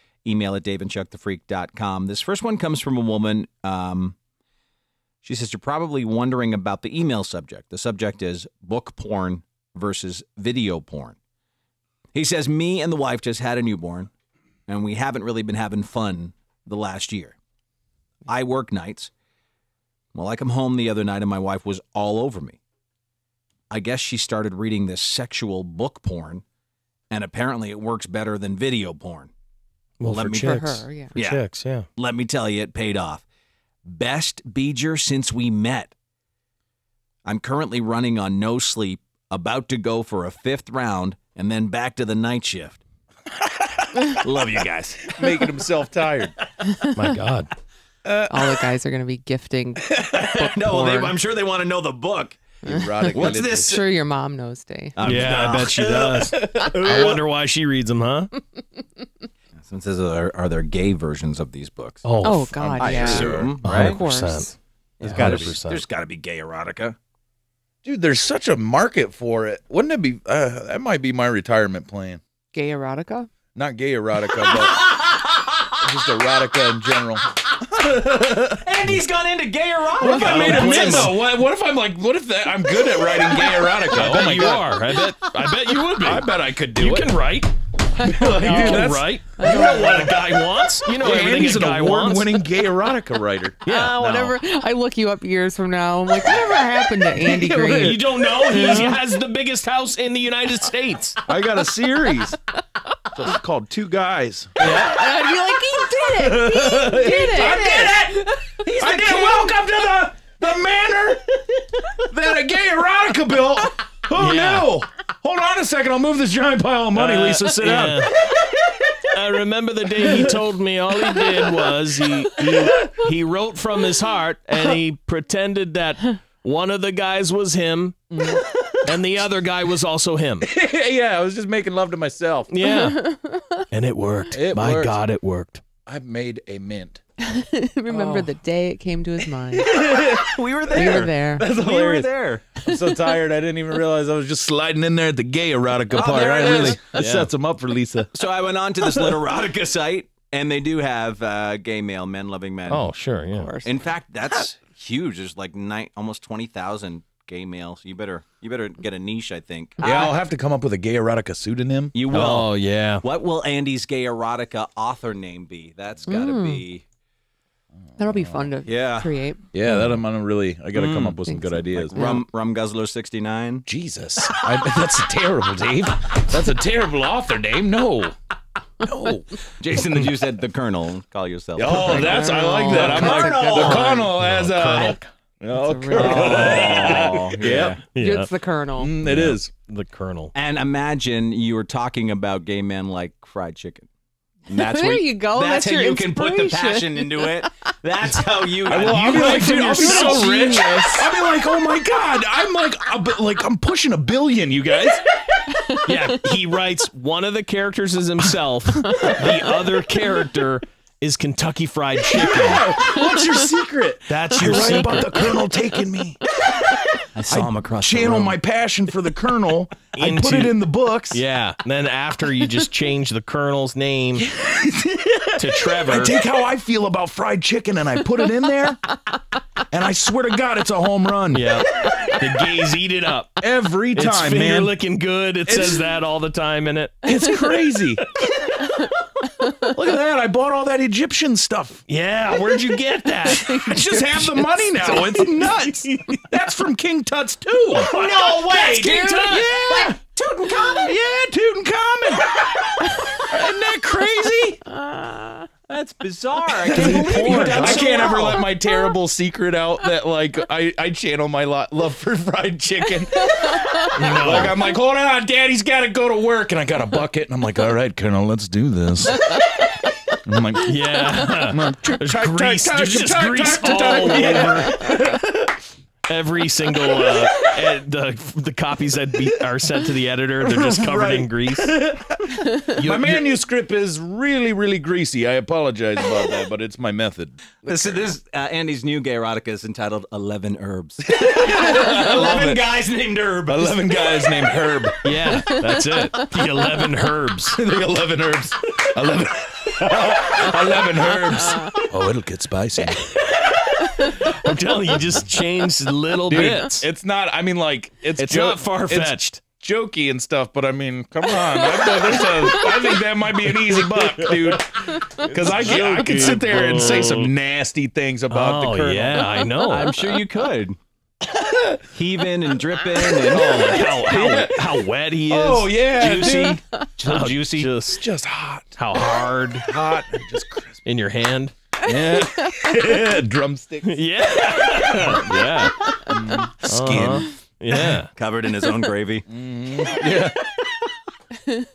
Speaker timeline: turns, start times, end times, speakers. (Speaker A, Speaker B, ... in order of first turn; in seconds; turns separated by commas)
Speaker A: 0.2-4.2, Speaker A: 5.2-11.2, Speaker A: 12.1-14.1, Speaker A: 14.7-17.4, Speaker A: 18.3-19.1, Speaker A: 20.1-22.6, Speaker A: 23.7-26.4, Speaker A: 27.1-29.3, Speaker B: 30.0-31.9, Speaker A: 30.0-33.2, Speaker C: 30.4-31.1, Speaker A: 33.9-35.9, Speaker A: 37.2-42.8, Speaker A: 44.1-45.2, Speaker D: 45.1-46.3, Speaker B: 46.9-47.5, Speaker D: 48.1-48.5, Speaker C: 48.3-51.1, Speaker A: 50.0-52.4, Speaker D: 52.6-53.8, Speaker C: 52.7-55.0, Speaker A: 53.1-53.8, Speaker A: 55.0-57.1, Speaker B: 55.0-58.3, Speaker D: 56.0-57.0, Speaker A: 59.6-62.0, Speaker B: 62.0-62.7, Speaker C: 62.2-64.5, Speaker D: 62.6-63.5, Speaker A: 62.8-64.0, Speaker B: 63.6-65.8, Speaker A: 65.0-67.0, Speaker D: 65.1-65.5, Speaker D: 67.8-72.2, Speaker C: 72.5-73.3, Speaker D: 73.5-74.8, Speaker A: 74.3-75.7, Speaker D: 75.8-79.0, Speaker A: 78.5-81.2, Speaker B: 80.0-81.2, Speaker D: 80.0-84.7, Speaker A: 83.1-83.8, Speaker B: 83.9-87.5, Speaker D: 86.0-87.1, Speaker D: 88.0-89.1, Speaker C: 88.0-90.2, Speaker B: 88.3-92.4, Speaker D: 91.0-94.3, Speaker B: 93.6-94.1, Speaker C: 93.7-98.9, Speaker B: 97.4-101.2, Speaker D: 101.2-102.4, Speaker D: 103.1-104.7, Speaker C: 104.7-108.5, Speaker D: 106.0-108.2, Speaker A: 107.5-107.9, Speaker A: 108.6-109.5, Speaker D: 108.8-111.2, Speaker D: 112.1-118.8, Speaker B: 114.2-114.7, Speaker B: 116.9-118.3, Speaker B: 119.1-128.2, Speaker D: 120.0-120.4, Speaker D: 121.2-121.5, Speaker D: 128.2-128.7, Speaker B: 128.8-130.5, Speaker D: 130.4-132.5, Speaker B: 132.5-133.1, Speaker C: 132.6-133.7, Speaker B: 133.7-135.6, Speaker D: 134.3-135.0, Speaker D: 135.8-137.0, Speaker C: 137.2-139.7, Speaker D: 137.9-138.3, Speaker D: 139.5-148.1, Speaker A: 140.0-142.4, Speaker C: 140.7-141.5, Speaker C: 142.6-143.1, Speaker A: 145.9-146.8, Speaker B: 146.9-147.3, Speaker A: 148.1-152.9, Speaker D: 148.8-149.1, Speaker B: 152.7-153.5, Speaker C: 153.4-153.7, Speaker A: 153.6-160.0, Speaker D: 159.8-161.9, Speaker C: 159.8-160.1, Speaker A: 161.9-162.5, Speaker B: 162.1-163.0, Speaker A: 163.0-166.8, Speaker C: 166.1-166.6, Speaker D: 167.9-168.5, Speaker C: 168.0-169.9, Speaker A: 168.6-169.1, Speaker D: 169.5-172.1, Speaker B: 170.7-171.2, Speaker C: 171.2-172.2, Speaker A: 171.8-173.7, Speaker D: 173.7-178.1, Speaker A: 174.2-174.9, Speaker D: 178.8-179.3, Speaker A: 179.6-184.1, Speaker D: 181.6-187.8, Speaker C: 181.9-183.9, Speaker B: 183.4-185.1, Speaker C: 185.5-186.9, Speaker A: 185.9-187.8, Speaker B: 186.2-187.2, Speaker B: 187.9-188.3, Speaker C: 187.9-188.9, Speaker D: 188.8-189.5, Speaker B: 189.0-190.3, Speaker A: 190.3-193.9, Speaker A: 194.5-200.1, Speaker C: 194.5-197.5, Speaker D: 198.7-205.0, Speaker B: 198.9-200.6, Speaker C: 199.2-201.1, Speaker C: 205.5-205.9, Speaker B: 205.8-212.8, Speaker D: 212.1-216.2, Speaker C: 213.0-213.4, Speaker B: 214.1-215.4, Speaker A: 217.1-218.4, Speaker D: 217.3-221.2, Speaker B: 219.9-224.2, Speaker D: 224.2-228.8, Speaker B: 225.3-226.2, Speaker D: 229.7-231.9, Speaker B: 231.3-237.1, Speaker D: 233.4-234.7, Speaker D: 235.4-235.9, Speaker D: 237.0-238.0, Speaker B: 238.0-238.5, Speaker D: 239.4-241.8, Speaker B: 241.9-244.5, Speaker D: 243.3-250.0, Speaker C: 244.8-246.1, Speaker A: 247.7-250.9, Speaker D: 250.6-254.7, Speaker C: 254.7-255.5, Speaker A: 255.7-258.5, Speaker D: 256.5-269.4, Speaker B: 256.8-258.0, Speaker C: 263.4-263.8, Speaker B: 263.9-264.6, Speaker D: 270.2-270.7, Speaker B: 270.6-274.9, Speaker D: 271.5-275.5, Speaker C: 273.9-274.5, Speaker B: 276.1-281.8, Speaker D: 276.9-277.3, Speaker D: 280.4-288.0, Speaker B: 282.8-283.2, Speaker A: 287.6-294.2, Speaker D: 291.1-292.6, Speaker D: 293.5-295.1, Speaker B: 295.0-297.6, Speaker D: 297.5-303.1, Speaker B: 303.0-306.9, Speaker D: 306.3-319.3, Speaker B: 308.2-309.4, Speaker C: 311.4-312.9, Speaker B: 313.8-314.6, Speaker B: 315.1-317.3, Speaker C: 315.8-316.2, Speaker B: 318.3-320.2, Speaker A: 319.6-320.8, Speaker D: 321.3-321.8, Speaker A: 321.9-323.6, Speaker D: 323.0-326.6, Speaker B: 323.4-325.7, Speaker A: 326.0-327.7, Speaker B: 327.1-328.0, Speaker D: 328.0-330.8, Speaker B: 328.8-329.7, Speaker B: 330.8-331.5, Speaker D: 331.8-334.1, Speaker B: 333.8-335.9, Speaker D: 334.9-335.4, Speaker D: 336.0-337.3, Speaker B: 336.6-338.1, Speaker A: 338.1-339.2, Speaker D: 339.3-340.4